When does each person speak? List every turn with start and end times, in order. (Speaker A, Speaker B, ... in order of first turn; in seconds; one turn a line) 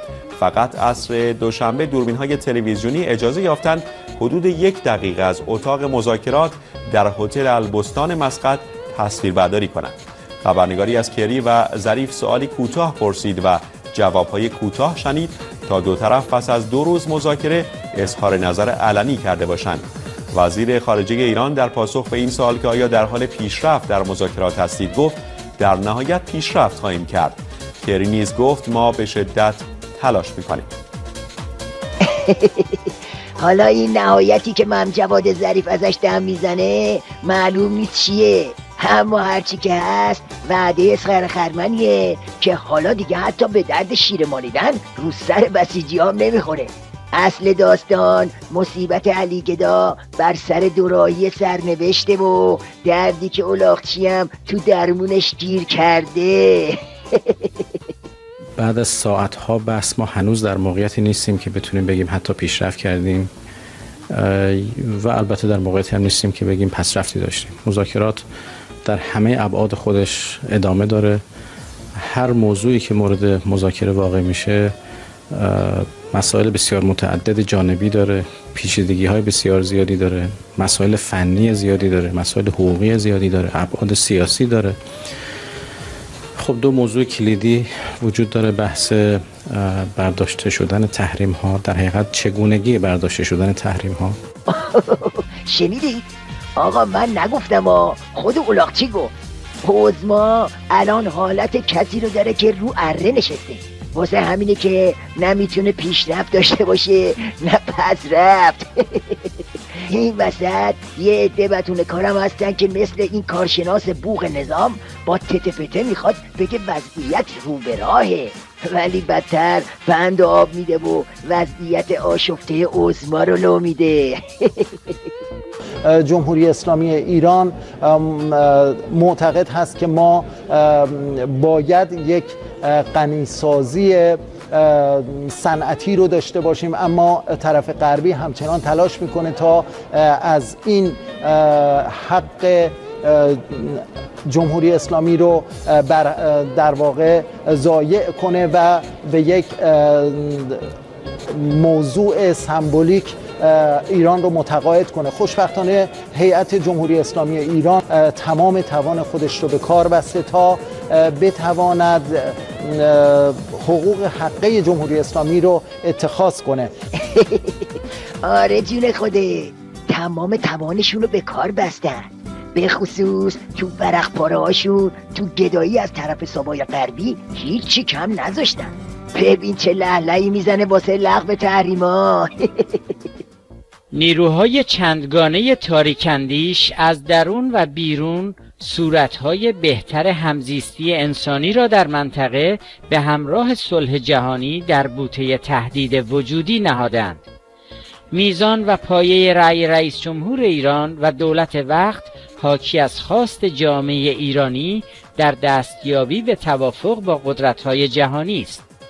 Speaker A: 0.4-30.7
Speaker B: 32.0-32.9
Speaker B: 33.4-56.8
Speaker C: 58.6-63.3
Speaker C: 64.3-68.2
Speaker C: 68.8-71.2
Speaker C: 72.2-74.7
Speaker C: 75.6-84.7
Speaker D: 82.3-84.6
Speaker D: 86.5-87.5
Speaker C: 86.5-88.9
Speaker D: 88.1-89.0
Speaker D: 89.5-94.1
Speaker C: 90.3-90.8
Speaker C: 92.5-92.8
Speaker B: 94.5-96.1
Speaker B: 96.6-124.7
Speaker D: 125.9-150.6
Speaker D: 151.3-166.7
Speaker B: 167.1-167.6
Speaker B: 168.2-182.8
Speaker E: 183.9-197.2
Speaker E: 198.1-208.7